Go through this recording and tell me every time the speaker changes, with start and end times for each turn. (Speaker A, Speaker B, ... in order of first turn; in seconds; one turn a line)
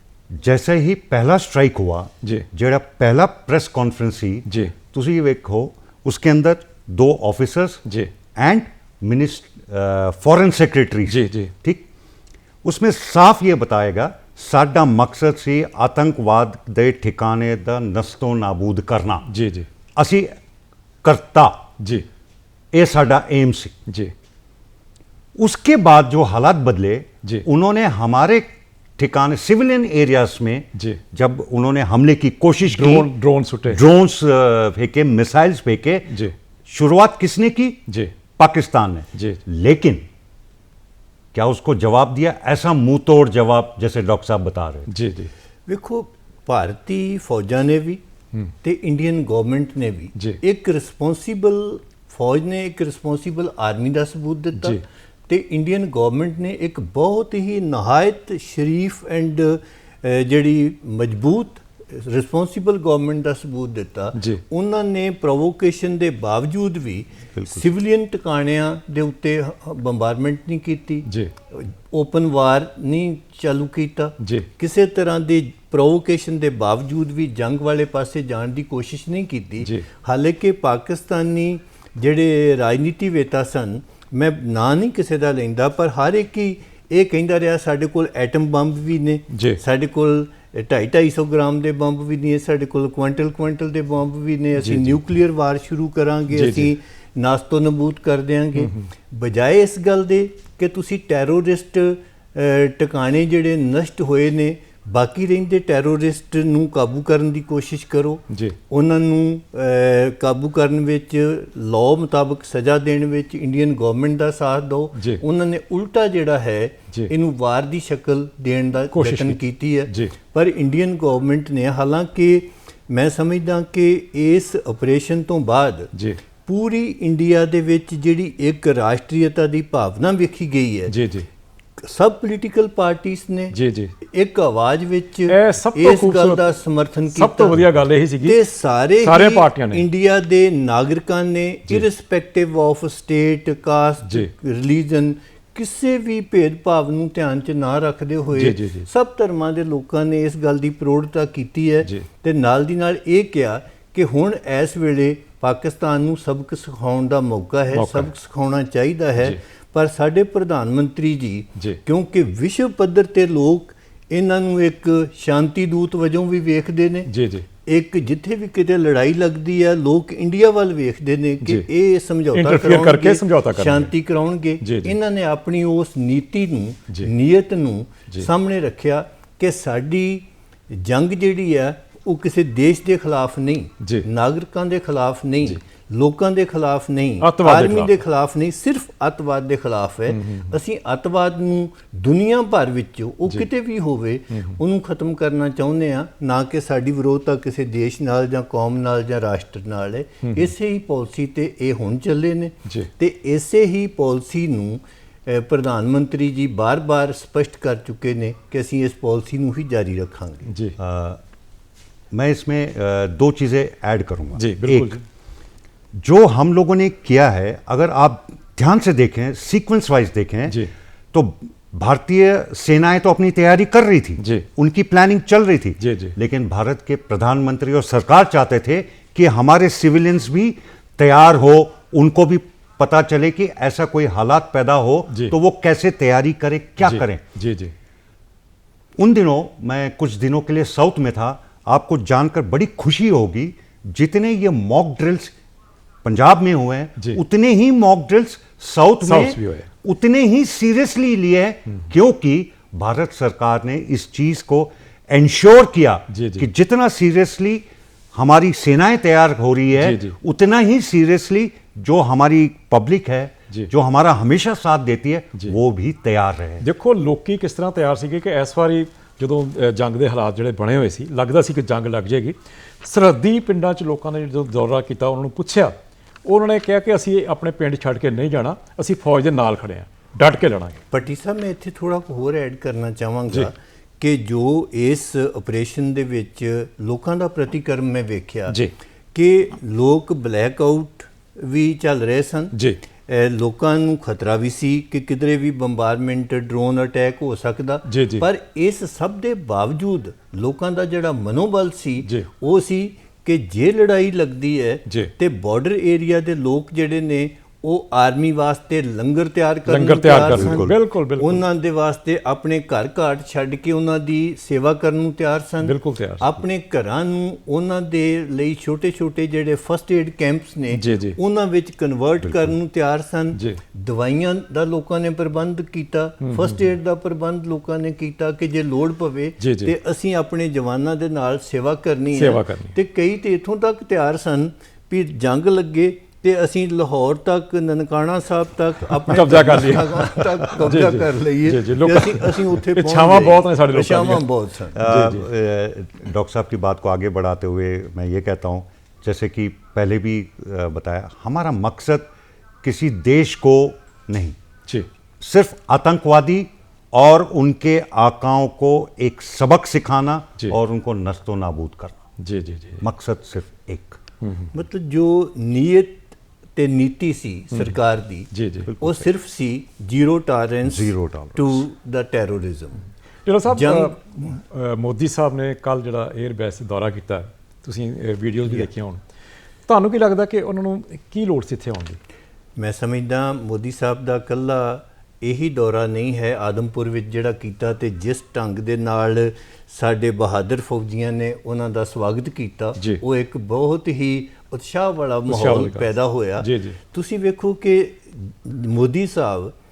Speaker A: 0.3-7.8
Speaker B: 4.5-4.7
Speaker B: 7.9-8.1
Speaker A: 8.3-11.9
Speaker B: 11.1-11.5
Speaker A: 12.6-19.3
Speaker B: 19.3-19.7
Speaker A: 19.9-20.4
Speaker A: 21.0-21.6
Speaker B: 21.8-22.1
Speaker A: 22.7-23.8
Speaker B: 23.9-24.1
Speaker A: 25.4-33.1
Speaker B: 32.7-33.8
Speaker A: 33.7-37.8
Speaker B: 36.1-36.3
Speaker A: 38.4-40.0
Speaker A: 41.3-44.9
Speaker B: 44.9-45.3
Speaker C: 45.7-48.0
Speaker C: 48.6-125.9
Speaker B: 64.1-64.4
Speaker A: 67.3-67.7
Speaker B: 71.0-71.3
Speaker B: 74.2-74.5
Speaker B: 89.3-89.6
Speaker B: 94.6-95.0
Speaker B: 96.3-96.7
Speaker B: 98.6-98.9
Speaker B: 108.3-108.6
Speaker B: 114.9-115.2
Speaker B: 118.9-120.1
Speaker B: 125.9-126.2
Speaker C: 126.4-130.9
Speaker B: 130.9-131.3
Speaker C: 131.8-137.7
Speaker B: 133.5-133.9
Speaker B: 135.3-136.4
Speaker B: 137.1-138.4
Speaker C: 138.2-167.1
Speaker B: 139.0-139.9
Speaker B: 148.3-148.9
Speaker B: 157.7-158.1
Speaker B: 167.1-167.5
Speaker C: 167.6-210.5
Speaker B: 172.3-173.9
Speaker B: 174.6-175.0
Speaker B: 183.8-184.1
Speaker B: 187.2-188.0
Speaker B: 190.1-190.6
Speaker B: 200.2-200.5
Speaker B: 210.5-210.8
Speaker A: 210.8-211.2
Speaker A: 212.1-215.0
Speaker B: 214.3-215.0
Speaker A: 215.9-220.6
Speaker A: 221.1-237.2
Speaker B: 224.2-224.4
Speaker B: 225.8-226.1
Speaker B: 236.8-237.7
Speaker A: 239.0-245.3
Speaker A: 246.0-266.6
Speaker B: 249.0-249.7
Speaker B: 256.1-256.4
Speaker B: 259.8-260.1
Speaker B: 266.6-280.8
Speaker C: 280.9-288.6
Speaker C: 289.1-292.6
Speaker B: 292.5-292.8
Speaker C: 293.1-344.8
Speaker B: 297.9-298.2
Speaker B: 304.9-305.1
Speaker B: 309.6-311.4
Speaker A: 310.3-310.7
Speaker B: 315.6-316.2
Speaker B: 320.7-321.2
Speaker A: 322.2-322.5
Speaker B: 323.3-323.6
Speaker B: 326.2-326.6
Speaker B: 329.4-329.7
Speaker B: 332.1-332.7
Speaker B: 339.1-344.2
Speaker A: 344.7-352.1
Speaker B: 344.8-345.2
Speaker A: 352.6-354.4
Speaker A: 355.2-362.0
Speaker B: 362.2-362.8
Speaker A: 362.8-364.0
Speaker B: 364.2-364.5
Speaker C: 364.5-372.8
Speaker B: 368.3-368.9
Speaker A: 370.6-371.6
Speaker B: 373.2-379.0
Speaker C: 373.5-374.0
Speaker B: 379.7-382.0
Speaker C: 382.6-399.6
Speaker B: 392.8-393.0
Speaker B: 395.3-396.8